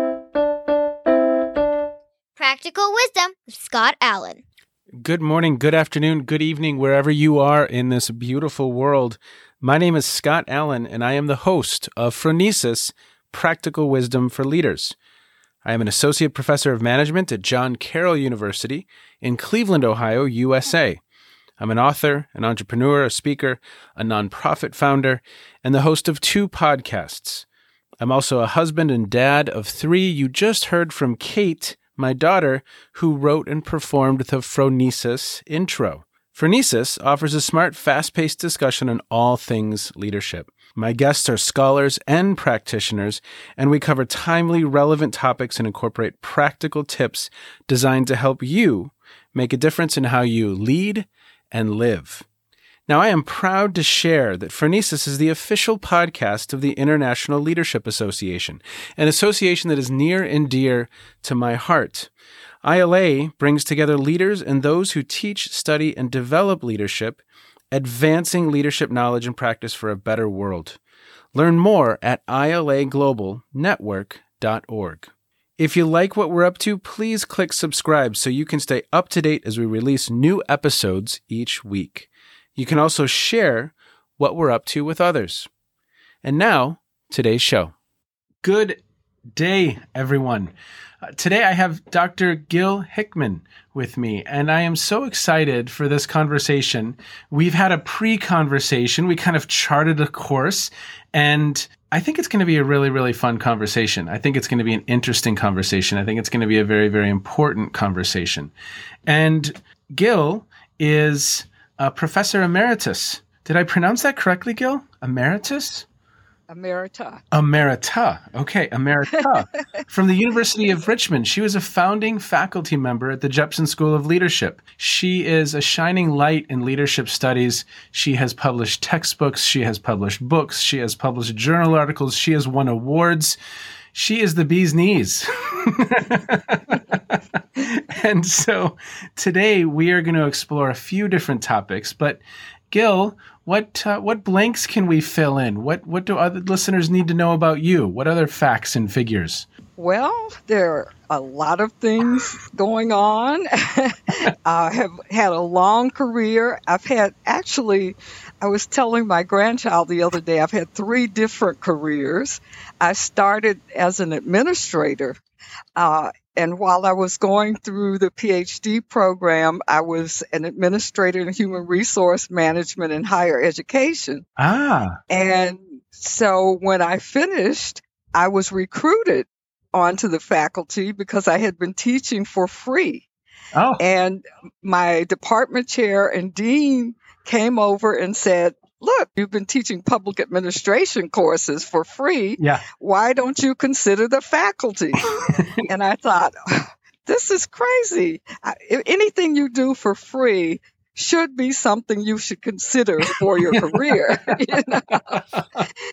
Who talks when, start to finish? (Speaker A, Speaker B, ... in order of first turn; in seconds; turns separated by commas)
Speaker A: 2.4-4.4, Speaker B: 5.0-14.9, Speaker B: 15.6-21.0, Speaker B: 21.6-27.4, Speaker B: 28.0-52.2, Speaker B: 52.9-62.1, Speaker B: 62.6-70.8, Speaker B: 71.3-85.5, Speaker B: 86.2-87.7, Speaker B: 88.4-88.8, Speaker B: 89.3-90.5, Speaker B: 91.1-108.5, Speaker B: 109.1-115.9, Speaker C: 116.5-117.2, Speaker B: 117.3-133.4, Speaker C: 119.1-119.8, Speaker B: 133.9-149.4, Speaker C: 149.8-165.2, Speaker C: 165.8-174.2, Speaker B: 174.4-175.0, Speaker C: 175.1-183.1, Speaker B: 183.5-183.8, Speaker C: 183.8-205.2, Speaker B: 192.4-192.6, Speaker B: 203.5-204.1, Speaker B: 205.1-205.6